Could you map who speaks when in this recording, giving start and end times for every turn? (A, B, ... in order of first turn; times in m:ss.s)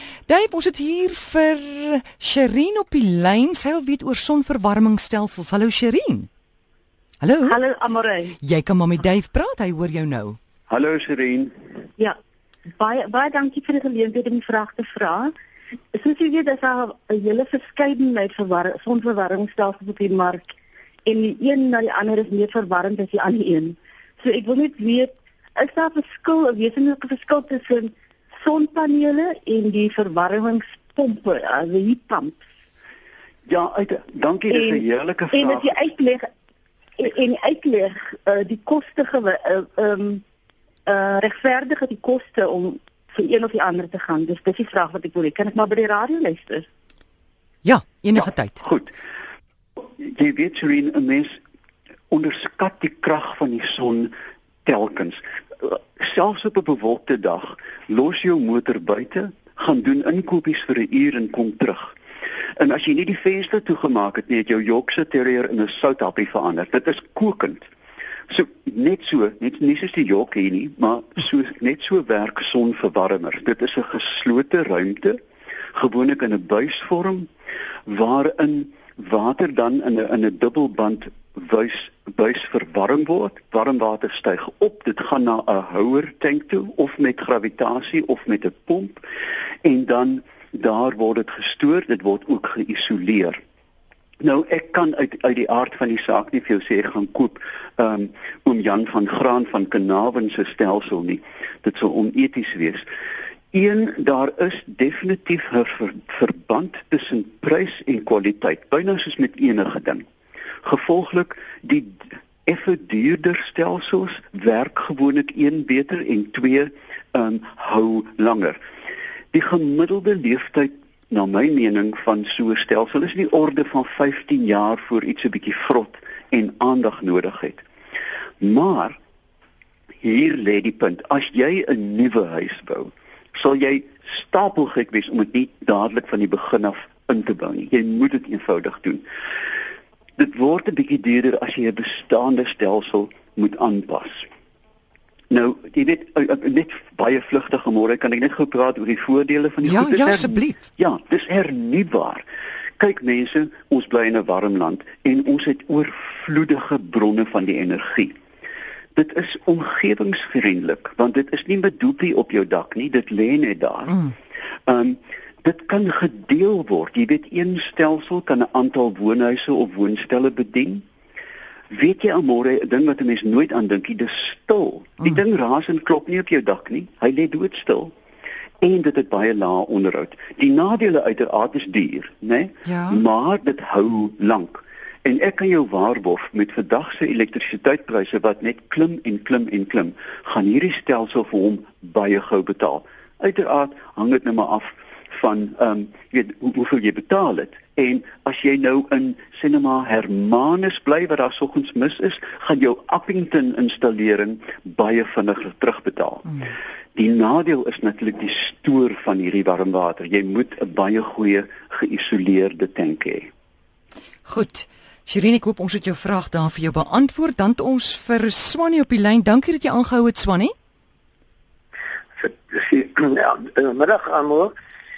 0:00.3-0:06.3 A
0:07.2-0:07.6 A
0:07.5-0:08.4 B
0:08.4-0:10.4 A
0:10.7-0:11.5 C
0:12.8-0:15.3 B
0:16.0-0:20.6 B
0:21.1-0:32.5 B
0:33.5-0:35.7 C
0:34.5-0:36.3 B
0:37.0-0:40.2 B
0:40.9-0:46.7 B
0:47.6-0:48.6 A
0:48.6-0:49.0 C
0:49.8-0:51.4 C
0:52.1-0:54.1 C
0:54.6-1:02.0 C
1:02.6-1:07.7 C
1:08.3-1:15.2 C
1:15.7-1:17.3 C
1:17.9-1:29.1 C
1:29.6-1:33.4 C
1:34.2-1:42.9 C
1:43.5-1:50.0 C
1:50.6-1:58.6 C
1:59.3-2:07.6 C
2:08.4-2:09.0 C
2:10.0-2:19.0 C
2:20.2-2:24.3 C
2:25.3-2:32.2 C
2:29.6-2:30.6 A
2:32.8-2:38.2 C
2:39.0-2:44.1 C
2:44.7-2:50.8 C
2:51.7-2:57.9 C
2:58.6-3:33.3 C
3:02.7-3:03.0 A
3:34.3-3:40.5 A
3:42.2-3:44.5 D